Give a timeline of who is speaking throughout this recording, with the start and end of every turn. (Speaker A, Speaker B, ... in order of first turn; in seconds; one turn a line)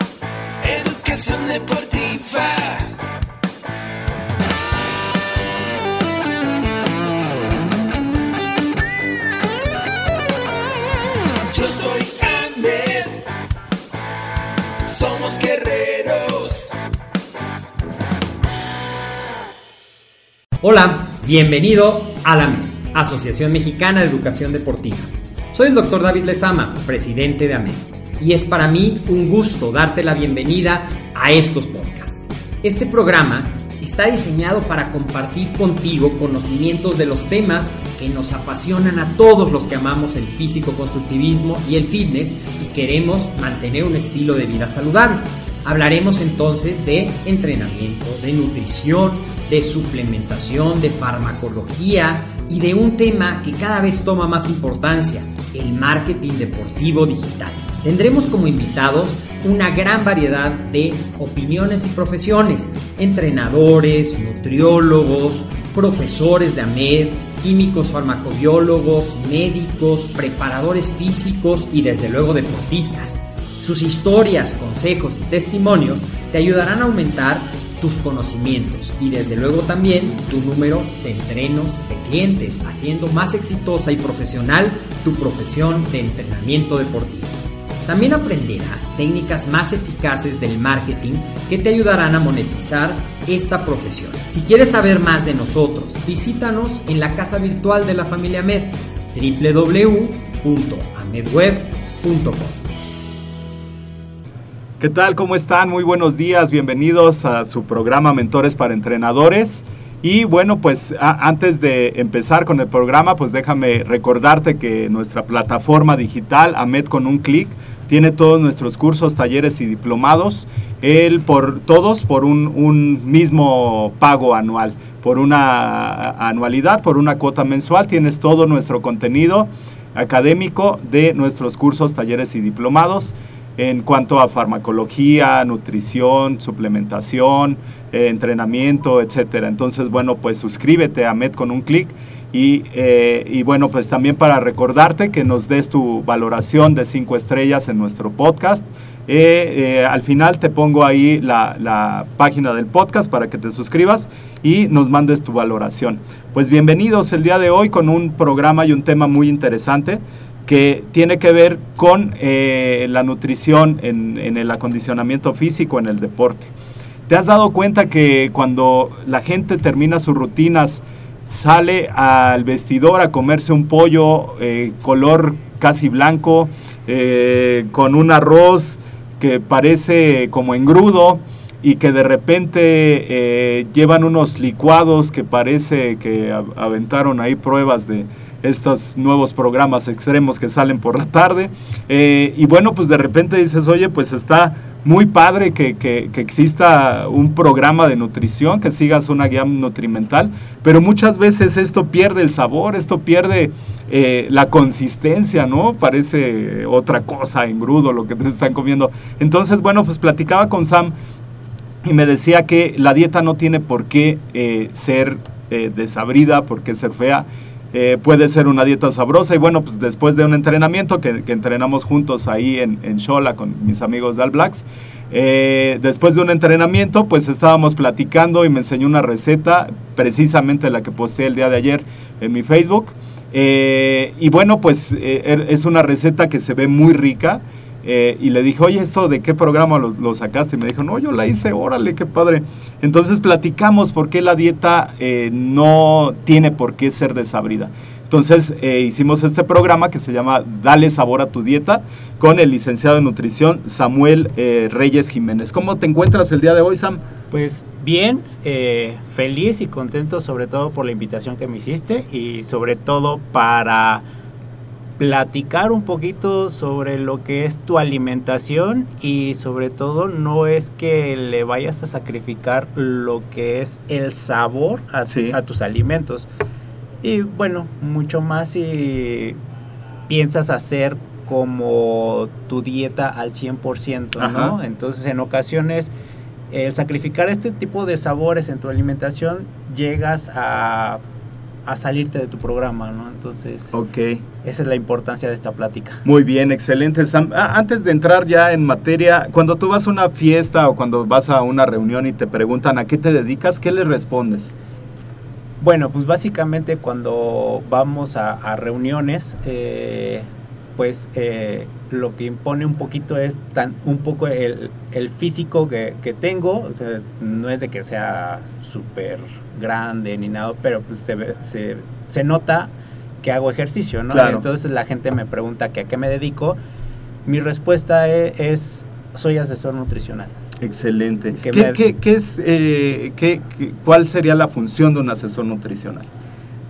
Speaker A: 0.6-2.9
Speaker A: 11.5-13.2
Speaker A: 14.9-16.8
Speaker B: 20.6-102.6
Speaker C: 104.8-166.5
Speaker C: 167.1-210.9
Speaker C: 211.8-257.0
Speaker D: 257.3-264.0
Speaker D: 265.0-276.3
Speaker C: 275.1-275.4
Speaker D: 277.0-279.4
Speaker D: 280.1-285.9
Speaker C: 284.2-284.6
Speaker D: 286.5-291.0
Speaker D: 291.7-293.8
Speaker C: 293.7-294.2
Speaker D: 294.4-296.0
Speaker C: 296.0-304.5
Speaker D: 305.6-326.6
Speaker C: 324.1-324.4
Speaker D: 327.2-330.3
Speaker C: 330.6-336.1
Speaker D: 331.4-331.8